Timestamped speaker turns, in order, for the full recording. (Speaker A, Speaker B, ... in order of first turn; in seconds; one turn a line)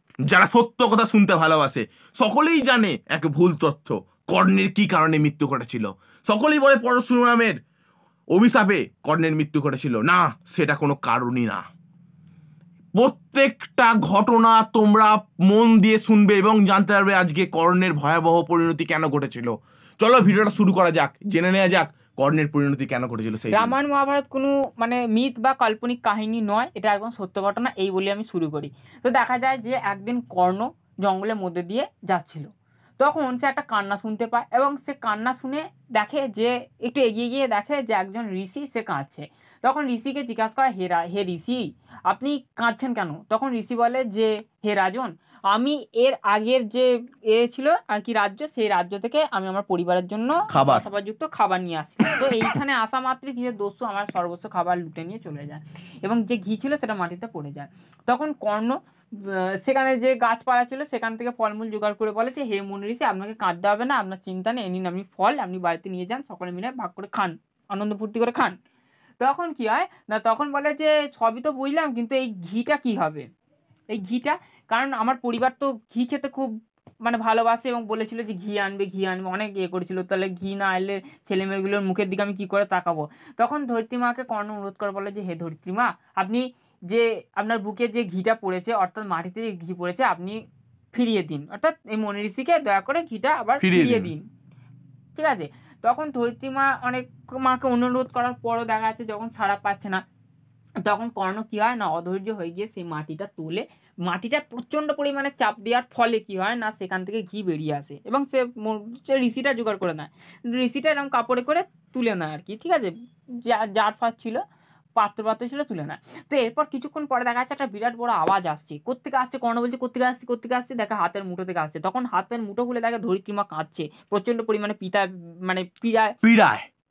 Speaker A: 0.3-7.6
Speaker A: 8.3-11.6
Speaker A: 12.9-23.7
Speaker B: 23.5-32.5
Speaker B: 33.0-68.5
Speaker A: 50.5-50.8
Speaker B: 69.2-73.3
Speaker B: 73.9-90.4
Speaker B: 90.9-94.2
Speaker A: 93.6-94.1
Speaker B: 95.2-100.0
Speaker B: 100.8-114.4
Speaker B: 115.0-126.2
Speaker A: 126.2-126.7